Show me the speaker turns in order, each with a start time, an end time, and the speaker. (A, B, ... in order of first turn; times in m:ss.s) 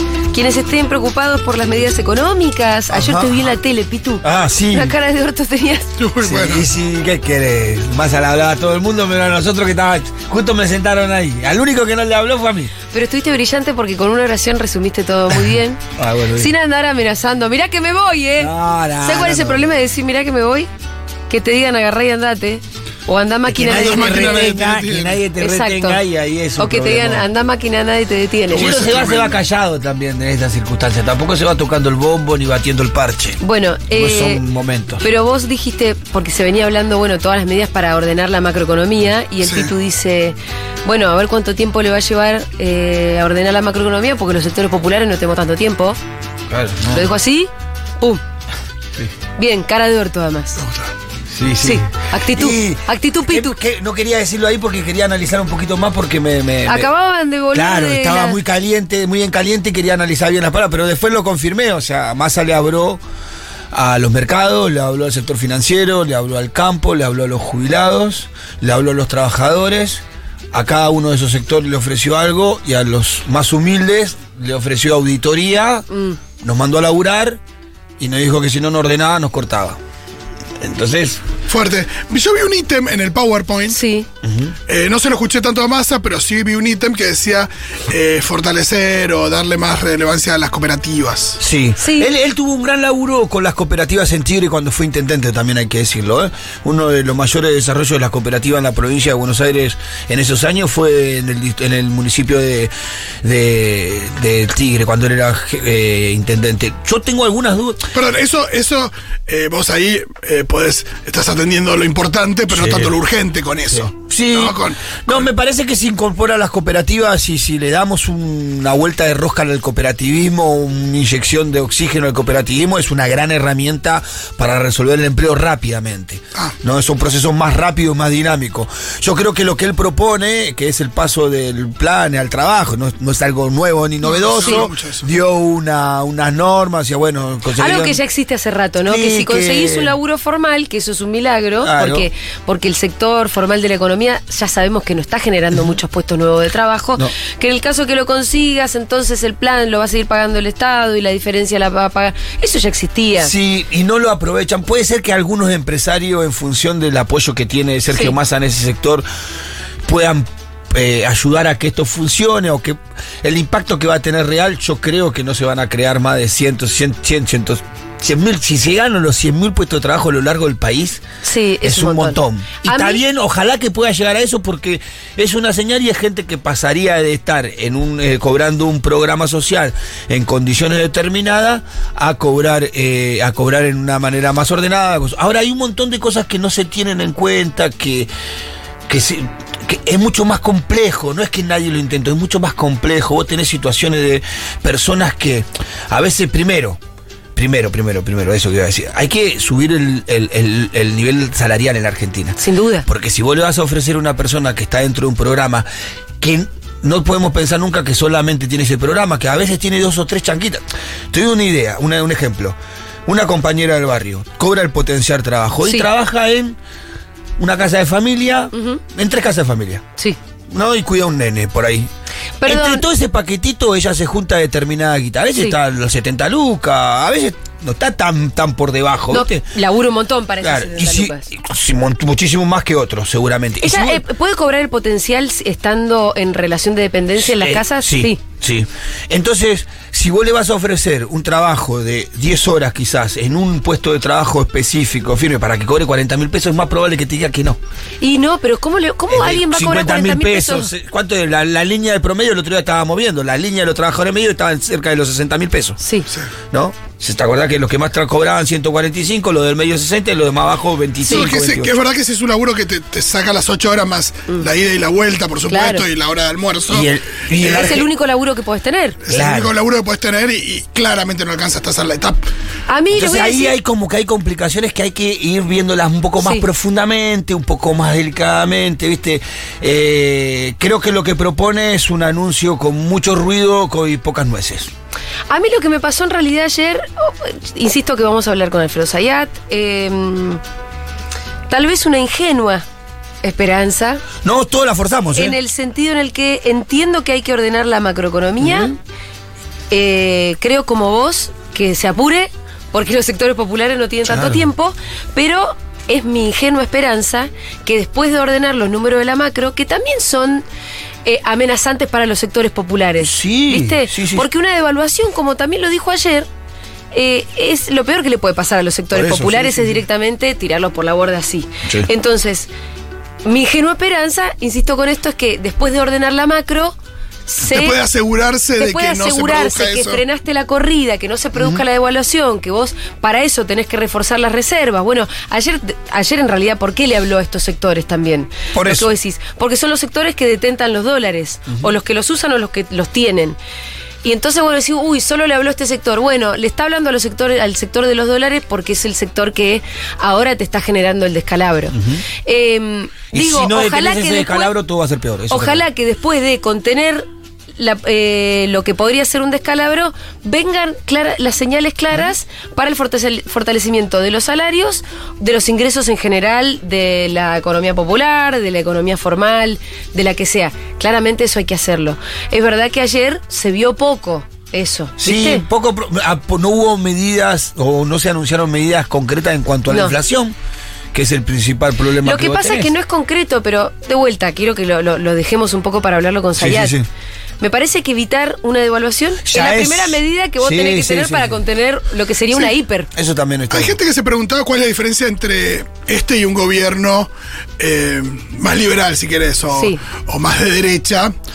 0:00.3-0:05.9 A
0:02.9-0:03.5 B
0:04.2-0:05.0 B
0:06.0-0:06.6 C
0:06.2-0:12.7 B
0:12.9-0:15.8 A
0:16.0-0:16.5 B
0:16.4-0:20.7 A
0:18.4-0:19.8 B
0:21.3-0:24.6 A
0:23.5-0:27.3 B
0:23.7-0:25.2 C
0:25.4-0:26.0 A
0:26.6-0:28.8 A
0:28.5-0:29.4 C
0:28.5-0:35.0 B
0:33.4-0:34.4 A
0:35.0-0:46.0 A
0:39.4-0:39.7 C
0:46.5-0:47.1 B
0:46.9-0:48.2 A
0:49.4-0:50.6 A
0:50.6-0:50.9 C
0:51.3-0:56.9 B
0:51.6-0:53.6 A
0:56.7-0:58.4 A
0:57.5-1:03.0 B
1:03.7-1:15.9 B
1:15.9-1:16.2 A
1:16.4-1:17.4 B
1:18.0-1:19.8 B
1:20.6-1:21.2 B
1:21.5-1:23.8 C
1:23.7-1:24.1 A
1:24.2-1:24.6 B
1:24.7-1:31.4 C
1:31.4-1:42.7 B
1:31.8-1:32.1 A
1:43.2-1:47.9 B
1:47.9-1:55.3 C
1:52.5-1:53.0 B
1:53.7-2:18.0 B
2:14.0-2:15.1 C
2:17.6-2:33.3 A
2:18.8-2:20.0 B
2:21.6-2:22.1 B
2:33.2-2:39.1 B
2:39.8-2:51.0 B
2:51.2-2:53.0 A
2:51.6-3:08.1 B
3:08.9-3:16.8 B
3:17.4-3:25.7 B
3:22.4-3:22.9 A
3:26.2-3:36.6 B
3:35.6-3:35.9 A
3:37.4-3:39.8 B
3:38.5-3:38.8 A
3:40.5-3:41.9 B
3:42.4-3:42.8 A
3:42.4-3:49.5 B
3:49.1-3:51.3 A
3:50.4-3:54.0 B
3:53.6-3:58.2 A
3:57.2-4:07.6 B
4:08.0-4:10.7 A
4:09.1-4:15.8 B
4:15.8-4:16.1 A
4:16.5-4:21.7 B
4:21.1-4:26.9 C
4:25.5-4:25.9 A
4:26.7-4:27.9 B
4:27.4-4:29.0 A
4:29.0-4:32.2 C
4:29.1-4:29.5 B
4:32.7-4:33.6 A
4:32.9-4:44.7 B
4:36.2-4:36.5 A
4:45.3-4:50.4 A
4:51.5-4:52.6 A
4:53.2-4:54.1 A
4:54.2-4:55.4 B
4:55.1-4:58.7 A
4:58.4-4:58.8 B
4:59.7-5:10.4 A
5:04.1-5:04.5 B
5:11.0-5:16.3 A
5:13.0-5:14.3 B
5:16.9-5:22.5 A
5:18.9-5:19.8 B
5:23.2-5:26.8 A
5:27.3-5:27.8 A
5:27.4-5:30.0 C
5:28.6-5:43.4 A
5:31.4-5:31.6 B
5:38.5-5:38.9 B
5:41.5-5:41.7 B
5:44.0-5:54.5 A
5:51.7-5:52.1 B
5:53.1-5:55.6 B
5:55.3-6:15.4 A
6:15.0-6:20.4 B
6:19.7-6:20.0 A
6:20.9-6:22.7 B
6:22.0-6:26.8 A
6:26.4-6:26.9 B
6:27.4-6:32.9 A
6:29.2-6:31.4 B
6:32.9-6:33.8 B
6:33.5-6:41.1 C
6:39.6-6:39.8 A